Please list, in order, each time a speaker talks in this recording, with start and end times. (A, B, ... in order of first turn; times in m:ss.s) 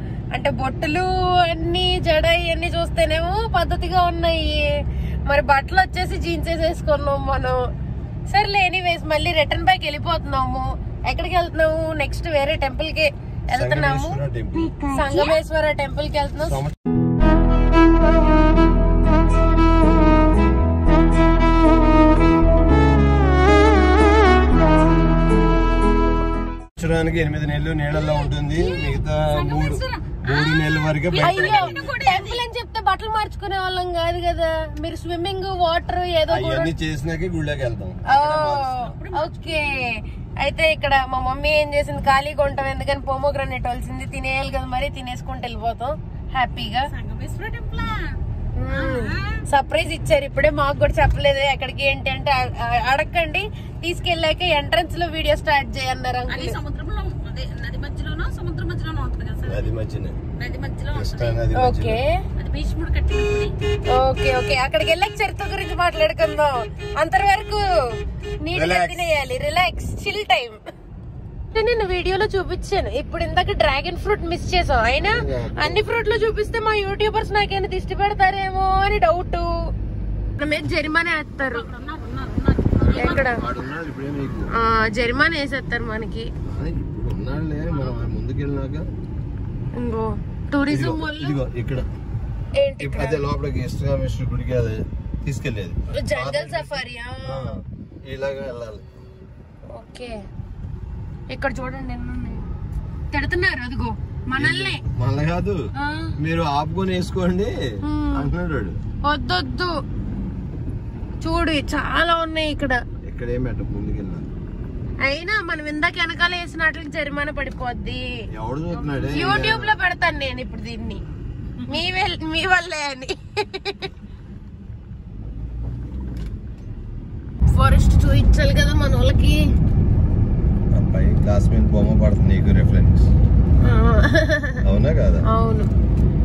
0:00.3-0:04.7 A
0:05.3-0:07.6 A
0:08.3-0:14.2 A
0:13.5-0:14.8 B
0:14.8-0:16.6 A
0:16.4-0:16.8 B
0:26.8-0:31.9 B
0:28.0-0:32.4 C
0:31.1-0:36.7 A
0:36.3-0:39.0 B
0:38.1-0:39.8 A
0:38.8-0:39.8 C
0:40.4-0:46.9 A
0:46.9-0:48.2 C
0:48.6-0:56.6 A
0:48.7-0:49.4 C
0:56.3-0:59.7 C
0:59.4-1:00.2 B
1:00.4-1:01.5 C
1:00.9-1:02.0 B
1:01.5-1:02.2 A
1:02.4-1:03.6 C
1:03.9-1:07.6 A
1:08.4-1:10.6 A
1:08.5-1:09.0 B
1:11.5-1:19.5 A
1:15.0-1:16.1 B
1:20.4-1:21.7 A
1:21.4-1:23.3 C
1:22.8-1:24.5 B
1:23.0-1:23.4 A
1:24.6-1:26.3 A
1:26.4-1:28.9 B
1:27.7-1:28.1 C
1:29.8-1:31.4 A
1:30.6-1:31.9 B
1:32.6-1:33.2 A
1:32.8-1:38.8 B
1:35.9-1:37.5 A
1:39.7-1:40.2 A
1:41.3-1:42.5 A
1:43.1-1:44.8 A
1:44.4-1:45.6 B
1:45.8-1:46.1 A
1:46.2-1:47.5 B
1:47.9-1:48.3 A
1:48.1-1:48.8 B
1:49.0-1:49.7 A
1:51.2-1:52.8 A
1:53.0-1:54.3 B
1:55.0-1:58.0 A
1:58.4-1:59.8 B
1:59.0-2:01.0 A
2:01.7-2:03.9 A
2:07.5-2:09.4 A
2:10.7-2:13.1 B
2:13.6-2:14.6 A
2:14.6-2:15.2 B
2:15.3-2:15.7 A